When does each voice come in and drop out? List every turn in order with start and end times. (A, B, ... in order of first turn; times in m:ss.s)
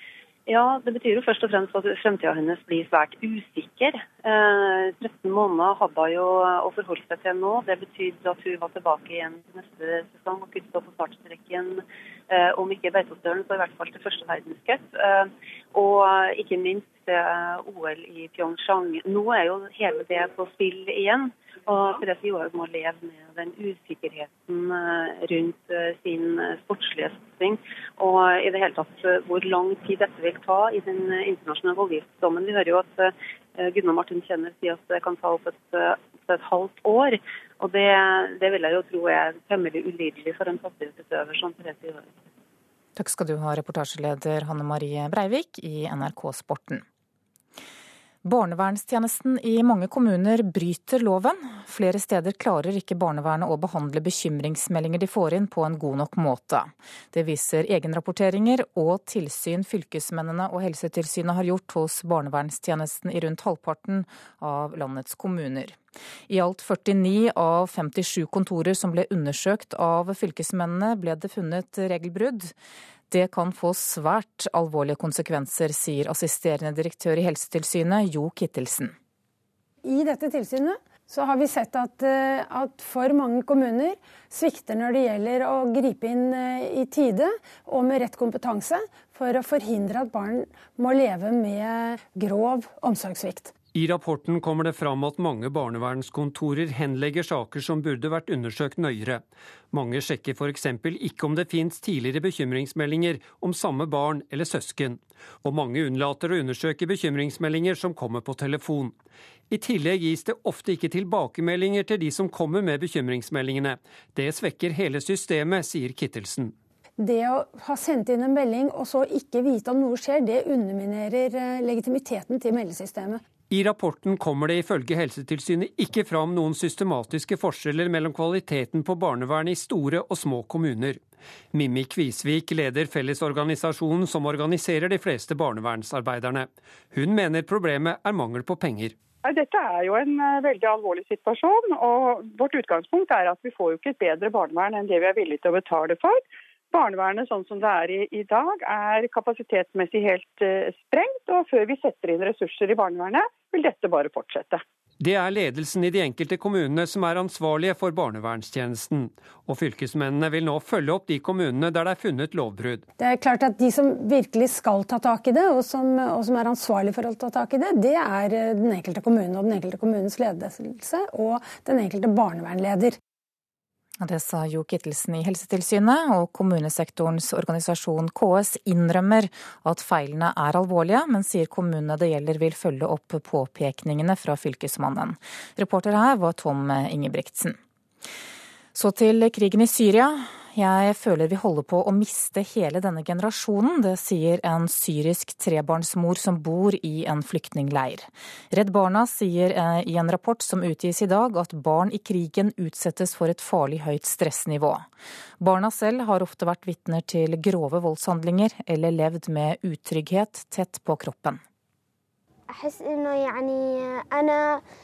0:00.5-0:11.6 A
0:11.1-0:11.6 B
0:12.3-0:15.2 A
0:12.9-0:13.9 B
0:15.8-0:33.1 A
0:29.6-0:30.6 B
0:31.3-0:31.9 B
0:33.6-0:42.1 A
0:33.9-0:35.2 B
0:43.0-0:46.8 C
0:48.2-1:05.8 C
1:06.3-1:12.5 C
1:13.1-1:18.9 C
1:19.8-1:33.5 D
1:33.7-1:48.9 E
1:49.5-1:56.5 E
1:57.0-2:03.2 D
2:03.5-2:11.0 E
2:11.5-2:18.9 E
2:19.2-2:26.2 B
2:26.7-2:34.6 B
2:35.0-2:42.8 E
2:43.0-2:53.0 D
2:54.0-3:07.6 C
3:08.7-3:24.9 C
3:25.4-3:31.4 C